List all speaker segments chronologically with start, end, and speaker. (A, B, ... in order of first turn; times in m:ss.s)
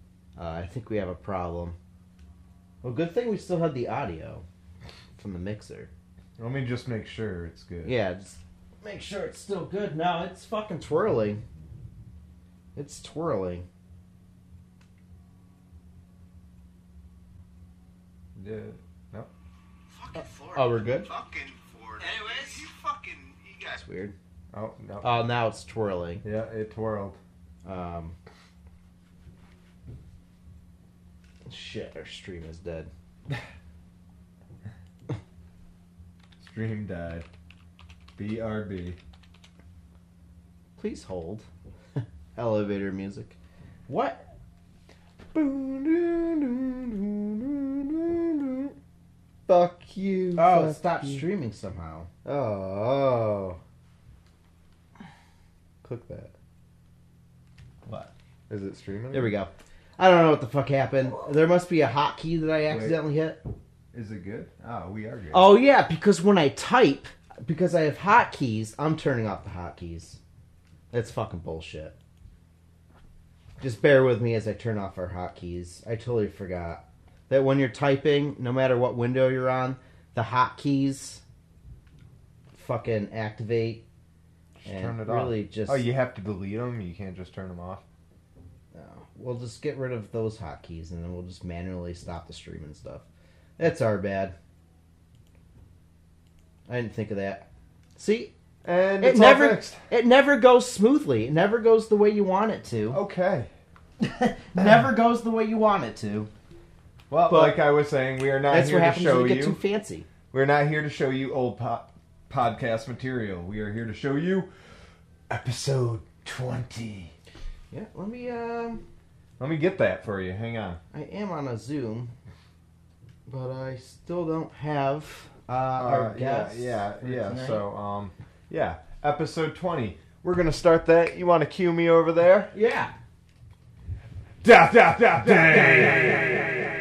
0:00.4-0:01.8 A
0:02.8-0:04.4 A
0:05.2-0:05.9 A
0:06.4-0:07.9 B
0:07.8-0:11.4 A
0:12.8-0:13.6 A
0:18.4-0:19.3 B
0:19.9-0:23.8 C
0:20.2-0:21.1 A
0:22.0-0:22.6 A
0:23.7-0:24.1 A
0:24.5-0:25.2 B
0:25.0-0:26.2 A
0:26.2-0:27.2 B
0:27.6-0:28.2 A
0:31.4-0:32.9 A
0:36.4-0:37.3 B
0:38.2-0:39.0 B
0:40.8-0:41.5 A
0:42.4-0:44.2 A
0:45.3-0:48.7 B
0:49.5-0:51.2 B
0:50.4-0:53.6 A
0:55.8-0:56.3 B
0:57.8-0:58.1 A
0:58.5-0:59.4 B
0:59.1-1:03.4 A
1:02.7-1:03.0 B
1:03.9-1:05.5 B
1:05.3-1:10.2 A
1:10.9-1:11.9 A
1:13.6-1:21.2 A
1:22.5-1:23.8 A
1:24.6-1:27.8 B
1:24.6-1:25.8 A
1:28.7-1:33.0 A
1:33.6-1:34.3 A
1:36.7-1:38.3 A
1:38.6-1:39.8 B
1:39.0-1:43.0 A
1:42.9-1:43.5 B
1:44.0-1:46.3 A
1:47.1-1:49.6 B
1:47.3-1:47.6 A
1:48.5-1:50.1 A
1:50.3-1:54.5 B
1:55.3-1:57.1 B
1:57.7-1:58.8 A
1:59.4-2:00.8 B
2:00.9-2:02.1 A
2:03.3-2:07.7 A
2:05.8-2:12.5 B
2:12.5-2:12.9 A
2:14.4-2:16.6 B
2:15.2-2:16.4 A